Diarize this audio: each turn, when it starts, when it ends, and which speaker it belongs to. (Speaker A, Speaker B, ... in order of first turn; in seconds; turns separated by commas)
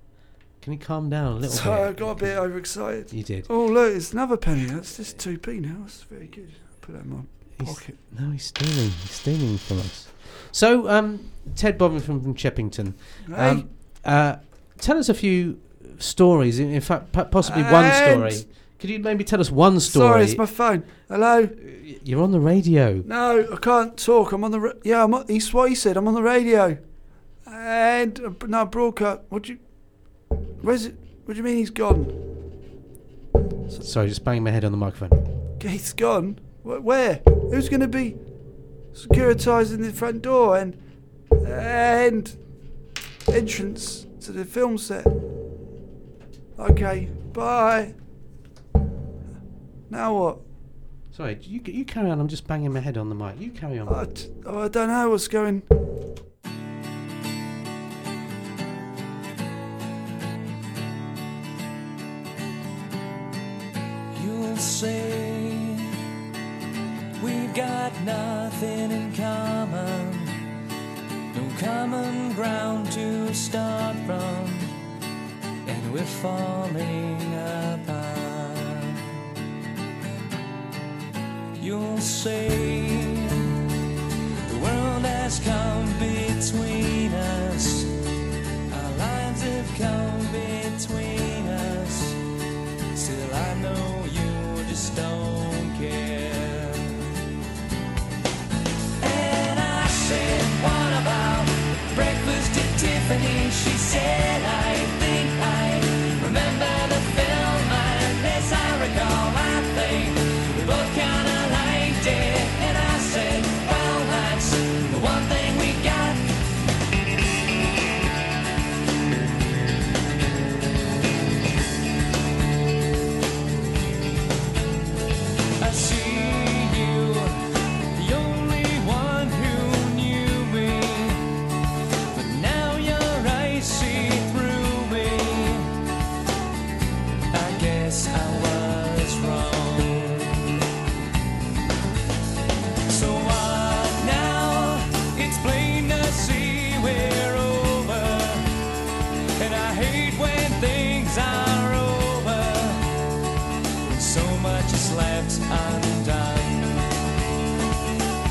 Speaker A: 0.6-2.3, Speaker B: 1.5-8.0, Speaker A: 3.1-3.5, Speaker A: 7.6-20.4, Speaker B: 13.3-13.7, Speaker B: 17.4-18.4, Speaker B: 19.9-21.6, Speaker A: 21.6-23.1, Speaker B: 23.1-26.8, Speaker B: 27.5-29.6, Speaker B: 30.6-32.1, Speaker A: 33.8-35.2, Speaker B: 35.6-38.2, Speaker B: 38.9-40.8, Speaker B: 41.4-42.4, Speaker B: 43.3-45.1, Speaker B: 46.6-48.0, Speaker B: 49.9-50.4, Speaker A: 51.1-54.0, Speaker B: 53.9-55.7, Speaker C: 64.1-66.0, Speaker C: 67.2-70.4, Speaker C: 71.3-74.7, Speaker C: 75.7-79.1, Speaker C: 81.6-83.6, Speaker C: 84.5-87.9, Speaker C: 88.7-92.2, Speaker C: 92.9-97.1, Speaker C: 99.0-116.2, Speaker C: 125.6-127.4, Speaker C: 127.9-131.4, Speaker C: 132.1-135.7, Speaker C: 137.3-140.6, Speaker C: 142.9-148.5, Speaker C: 149.4-152.9, Speaker C: 153.8-156.9